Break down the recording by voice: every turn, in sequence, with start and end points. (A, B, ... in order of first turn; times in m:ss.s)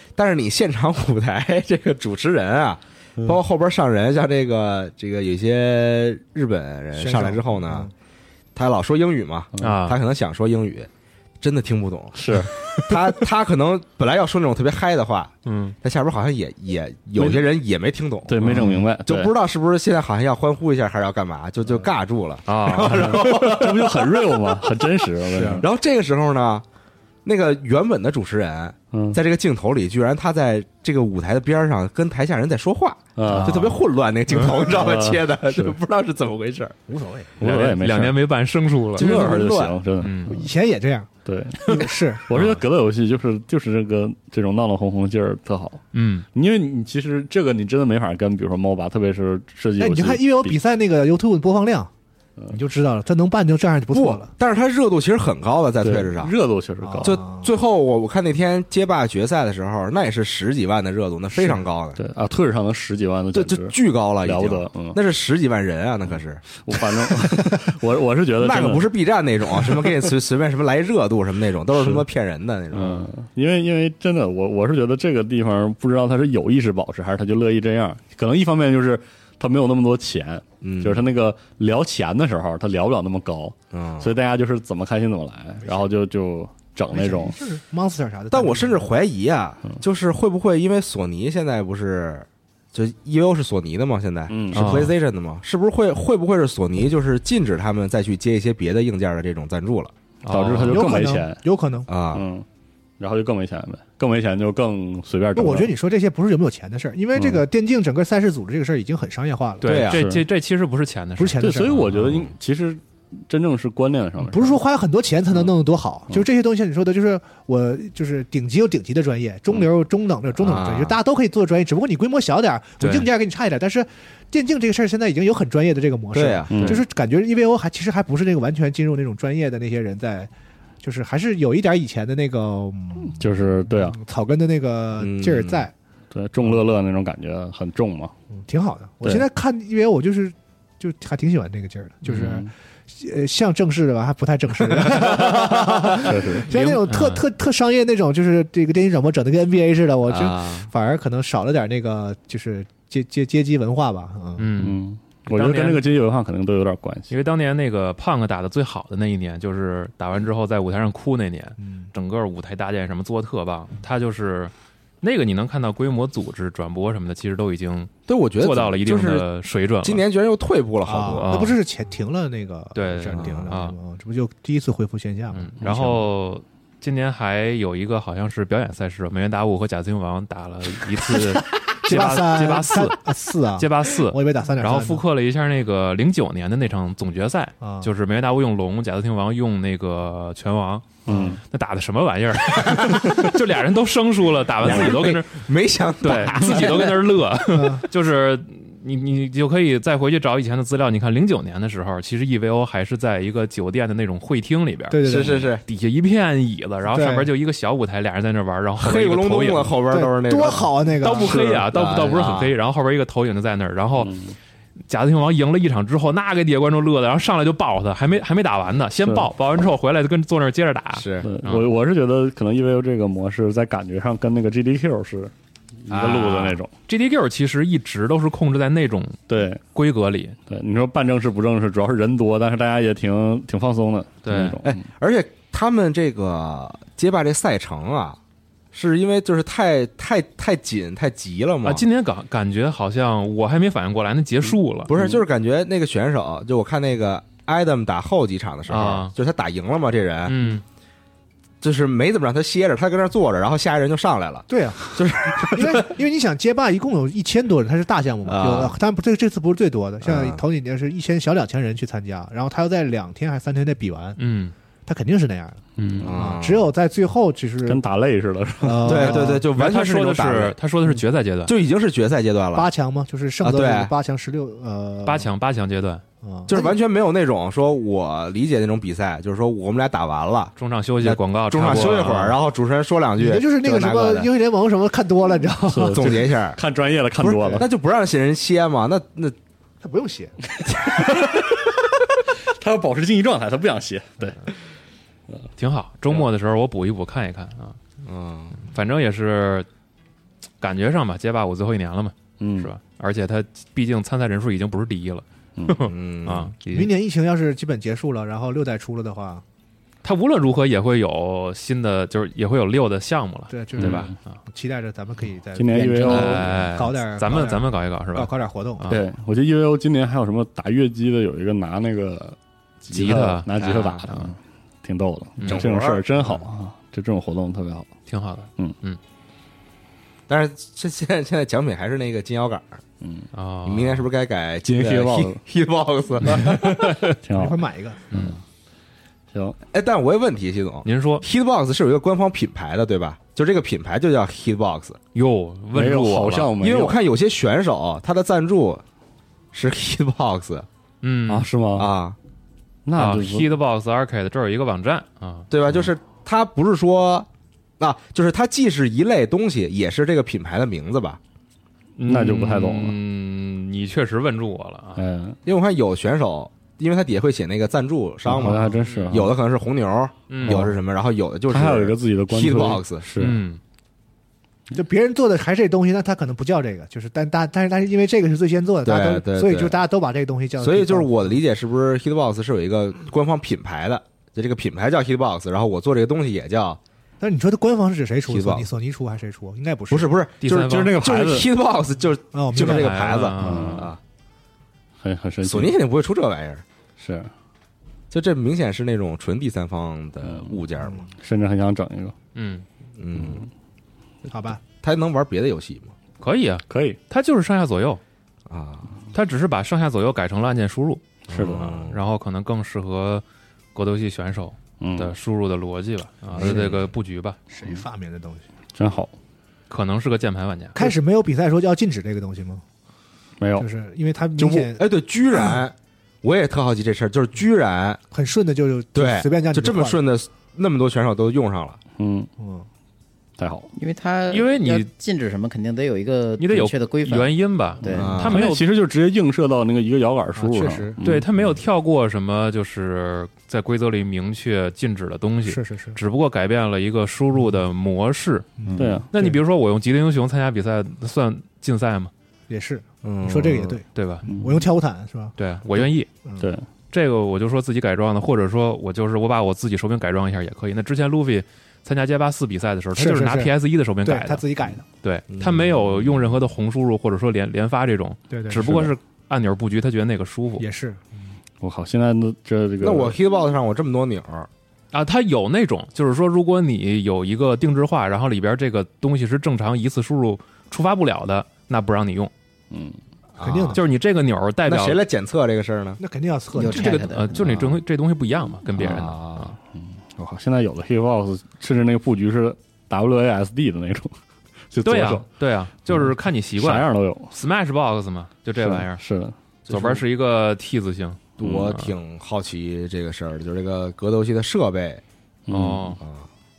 0:00.2-0:07.9 A
0:07.0-0:07.9 B
0:08.6-0:10.9 A
0:09.6-0:10.0 C
0:11.4-0:24.4 A
0:12.2-0:12.5 D
0:15.4-0:15.8 C
0:17.2-0:17.4 D
0:18.3-0:19.3 D
0:22.5-0:23.5 C
0:22.8-0:25.7 D
0:25.4-0:26.6 A
0:27.2-0:36.8 A
0:28.9-0:29.2 D
0:33.2-0:33.8 D
0:34.5-0:35.8 D
0:36.9-0:37.4 B
0:37.4-0:38.2 D
0:37.4-0:39.2 C
0:39.0-0:39.8 A
0:39.0-0:40.5 D
0:40.0-0:40.4 C
0:40.3-0:41.1 B
0:41.3-0:45.8 D
0:41.6-0:42.3 B
0:41.7-0:42.6 C
0:45.9-0:46.2 C
0:46.3-0:50.6 D
0:49.8-0:51.9 B
0:52.5-0:54.3 B
0:53.9-0:56.3 A
0:55.8-0:57.2 D
0:56.8-0:57.5 B
0:57.0-1:02.0 A
1:02.0-1:05.0 D
1:03.3-1:06.6 A
1:06.6-1:08.9 D
1:08.4-1:13.1 A
1:09.5-1:09.8 D
1:11.7-1:12.0 D
1:12.7-1:27.4 D
1:20.6-1:21.0 A
1:23.7-1:24.1 A
1:26.9-1:28.9 B
1:28.3-1:39.9 A
1:34.3-1:34.9 D
1:34.5-1:34.9 C
1:40.2-1:40.9 C
1:40.3-1:41.4 D
1:40.7-1:41.9 B
1:41.9-1:42.2 A
1:42.1-1:42.5 D
1:43.0-1:45.7 D
1:45.4-1:49.8 B
1:47.2-1:47.4 D
1:49.6-1:52.0 C
1:49.6-1:50.0 A
1:49.9-1:50.3 D
1:51.2-1:51.9 B
1:51.4-1:54.6 D
1:52.0-1:52.3 A
1:54.2-2:10.3 B
2:00.4-2:01.0 A
2:02.8-2:03.1 C
2:06.1-2:06.6 A
2:06.5-2:06.8 D
2:06.6-2:06.8 C
2:10.8-2:15.7 B
2:13.1-2:14.0 D
2:15.0-2:15.7 A
2:16.1-2:18.1 D
2:18.3-2:34.5 B
2:22.1-2:22.5 D
2:26.0-2:26.5 D
2:26.5-2:27.2 C
2:30.1-2:30.7 A
2:34.4-2:35.8 C
2:34.6-2:37.1 D
2:37.1-2:50.0 C
2:41.6-2:41.9 B
2:48.1-2:49.3 A
2:49.8-2:51.3 A
2:50.9-2:56.1 B
2:51.1-2:51.6 C
2:52.7-2:53.8 C
2:53.1-2:53.5 A
2:55.3-3:03.0 C
3:01.0-3:05.0 B
3:03.6-3:15.4 C
3:07.6-3:07.9 B
3:11.1-3:11.4 D
3:11.1-3:11.4 B
3:12.6-3:13.3 A
3:14.6-3:17.0 A
3:16.0-3:25.0 C
3:17.4-3:17.9 B
3:24.9-3:25.5 B
3:25.0-3:25.6 A
3:25.7-3:29.7 C
3:26.9-3:27.3 B
3:28.8-3:32.6 A
3:29.9-3:31.4 B
3:31.0-3:34.1 C
3:34.0-3:34.4 D
3:34.9-3:41.7 C
3:41.0-3:41.3 A
3:41.2-3:45.3 D
3:45.8-3:46.7 D
3:45.9-3:46.6 A
3:46.5-3:49.2 C
3:49.3-3:49.6 D
3:49.7-3:50.4 C
3:50.5-3:54.8 D
3:54.2-3:54.6 C
3:54.6-3:58.2 A
3:58.7-4:01.9 A
4:01.6-4:04.9 C
4:04.9-4:10.4 A
4:08.7-4:09.1 C
4:10.3-4:10.6 C
4:11.6-4:16.0 A
4:14.5-4:24.2 B
4:18.3-4:18.8 A
4:20.0-4:20.4 A
4:24.2-4:24.5 C
4:24.9-4:27.8 B
4:25.8-4:26.1 C
4:26.0-4:26.7 A
4:27.7-4:29.2 D
4:28.6-4:29.5 B
4:28.8-4:30.6 A
4:29.1-4:31.5 C
4:31.5-4:32.7 A
4:32.5-4:35.3 B
4:33.4-4:33.9 A
4:35.0-4:36.0 C
4:36.2-4:36.8 B
4:36.5-4:44.3 A
4:40.6-4:42.4 C
4:41.7-4:42.3 B
4:43.2-4:46.2 B
4:45.7-4:47.7 D
4:45.9-4:46.6 A
4:47.2-4:49.4 A
4:49.8-4:50.4 B
4:50.7-4:51.6 D
4:52.4-4:54.6 D
4:55.6-4:57.8 C
4:58.0-4:58.6 A
4:58.6-4:59.7 C
5:00.6-5:06.9 C
5:02.4-5:02.7 D
5:05.9-5:06.6 A
5:06.6-5:09.4 B
5:10.0-5:14.4 C
5:13.5-5:18.9 B
5:13.8-5:14.1 D
5:15.6-5:16.6 D
5:16.0-5:19.0 C
5:18.9-5:27.9 D
5:22.9-5:24.3 C
5:23.6-5:24.0 A
5:25.4-5:25.6 C
5:25.5-5:26.4 A
5:28.1-5:29.0 C
5:30.3-5:32.8 A
5:33.0-5:33.3 D
5:33.3-5:34.1 C
5:33.7-5:37.0 A
5:34.6-5:35.4 D
5:36.2-5:37.2 C
5:37.2-5:37.6 D
5:37.3-5:38.0 B
5:38.1-5:38.4 C
5:39.7-5:45.0 A
5:40.8-5:41.2 C
5:45.1-5:46.5 C
5:45.7-5:47.0 D
5:46.6-5:48.8 A
5:49.5-5:50.7 A
5:51.0-5:51.5 C
5:51.3-5:51.9 D
5:51.8-5:52.2 A
5:52.9-5:53.5 D
5:53.0-5:55.5 C
5:55.5-5:57.3 A
5:57.8-6:01.2 A
6:02.0-6:05.0 C
6:02.1-6:03.0 D
6:05.0-6:05.4 D
6:05.4-6:13.1 A
6:08.2-6:09.4 D
6:08.8-6:09.2 C
6:10.3-6:10.7 C
6:10.4-6:10.8 D
6:11.5-6:13.4 D
6:13.2-6:13.6 C
6:14.7-6:21.2 B
6:18.8-6:19.8 A
6:20.6-6:26.8 A
6:27.2-6:30.1 B
6:28.3-6:28.7 A
6:29.9-6:34.0 A
6:30.4-6:31.0 C
6:30.7-6:31.5 D
6:32.3-6:33.0 B
6:32.5-6:33.9 C
6:33.4-6:33.9 D
6:35.0-6:35.8 D
6:35.4-6:36.6 A
6:37.0-6:37.3 D
6:38.1-6:41.0 A
6:40.2-6:40.6 D
6:41.2-6:42.2 D
6:42.4-6:42.7 C
6:43.0-6:43.5 A
6:44.3-6:44.6 B
6:44.7-6:45.9 A
6:46.2-6:48.0 C
6:46.7-6:47.0 D
6:48.5-6:49.0 A
6:49.1-6:51.0 C
6:51.3-6:52.0 A
6:51.3-6:51.7 D
6:51.6-6:53.2 C
6:53.8-6:57.4 C
6:54.8-6:55.1 D
6:56.3-6:56.8 A
6:57.5-6:58.5 B
6:58.8-6:59.1 D
6:59.7-7:00.9 C
7:00.8-7:02.6 B
7:03.4-7:03.7 D
7:03.6-7:05.6 B
7:04.8-7:08.0 A
7:08.1-7:10.0 B
7:09.0-7:11.8 A
7:12.0-7:12.3 D
7:12.4-7:12.7 B
7:13.4-7:13.7 D
7:13.8-7:18.1 E
7:14.3-7:14.9 C
7:16.4-7:18.7 C
7:18.0-7:21.3 D
7:18.0-7:18.4 A
7:20.4-7:21.0 B
7:21.0-7:32.1 C
7:25.5-7:26.0 B
7:28.6-7:29.4 B
7:28.7-7:29.1 D
7:32.5-7:36.5 B
7:33.0-7:33.8 A
7:33.9-7:34.2 C
7:34.3-7:34.6 D
7:35.4-7:36.1 C
7:36.4-7:36.7 D
7:36.9-7:44.4 C
7:42.9-7:44.9 B
7:45.0-7:50.7 C
7:45.3-7:46.3 A
7:48.3-7:48.9 B
7:50.6-7:51.3 B
7:51.6-7:53.2 D
7:52.8-7:54.5 A
7:54.9-8:02.3 C
8:02.7-8:03.0 D
8:03.4-8:03.8 A
8:03.4-8:03.8 B
8:03.7-8:05.0 C
8:04.7-8:06.0 A
8:06.0-8:07.2 B
8:06.5-8:07.6 E
8:06.6-8:09.6 C
8:08.8-8:09.6 A
8:09.7-8:14.2 D
8:14.7-8:15.2 D
8:14.8-8:19.0 C
8:16.6-8:17.3 D
8:18.6-8:19.4 D
8:19.7-8:20.0 A
8:19.7-8:21.9 C
8:21.4-8:25.0 A
8:25.5-8:26.0 D
8:25.5-8:26.0 C
8:26.0-8:26.3 A